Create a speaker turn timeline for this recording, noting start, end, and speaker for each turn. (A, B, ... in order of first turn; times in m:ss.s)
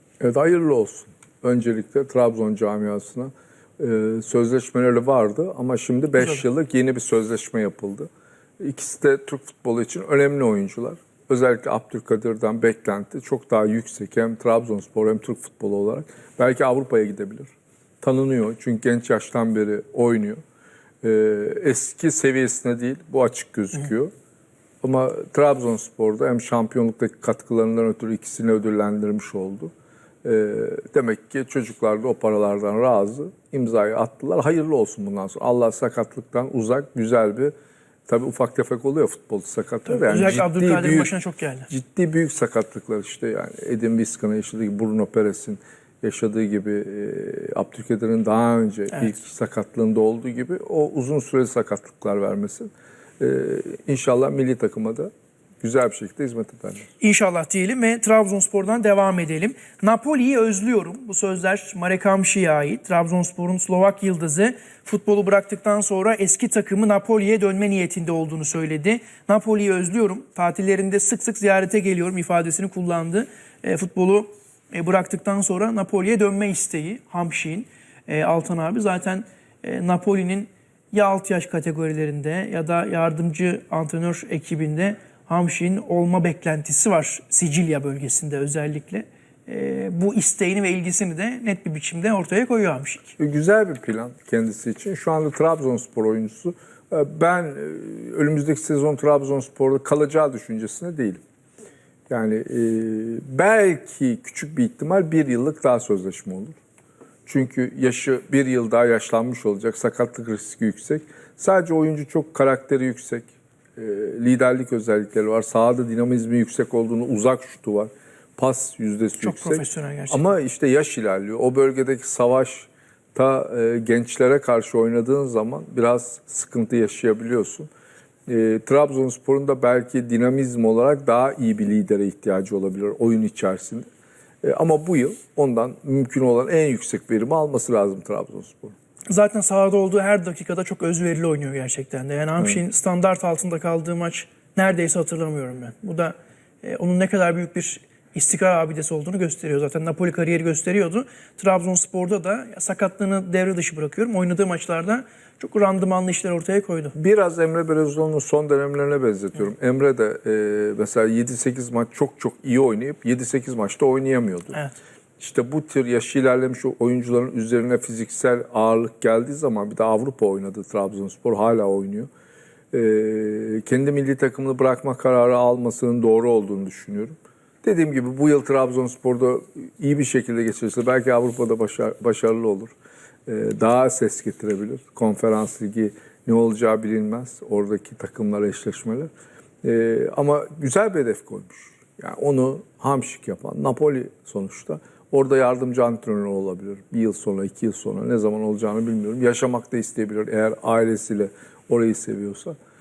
0:00.2-0:08.1 A
0:06.2-0:06.4 B
0:08.6-0:17.5 A
0:18.0-0:20.4 A
0:21.0-0:24.1 A
0:24.8-0:29.7 A
0:30.2-0:37.5 A
0:38.1-0:41.1 A
0:39.8-0:41.7 B
0:41.7-0:55.1 A
0:48.9-0:49.2 B
0:55.6-0:56.9 A
0:57.0-1:33.1 B
1:33.2-1:41.2 A
1:42.1-1:46.6 A
1:47.2-2:07.7 A
1:59.2-2:00.2 B
2:08.3-2:13.8 A
2:14.4-2:18.7 A
2:19.1-2:36.9 B
2:36.9-2:44.6 A
2:45.2-2:52.1 A
2:52.7-3:02.7 A
3:03.2-3:09.1 A
3:09.6-3:22.5 A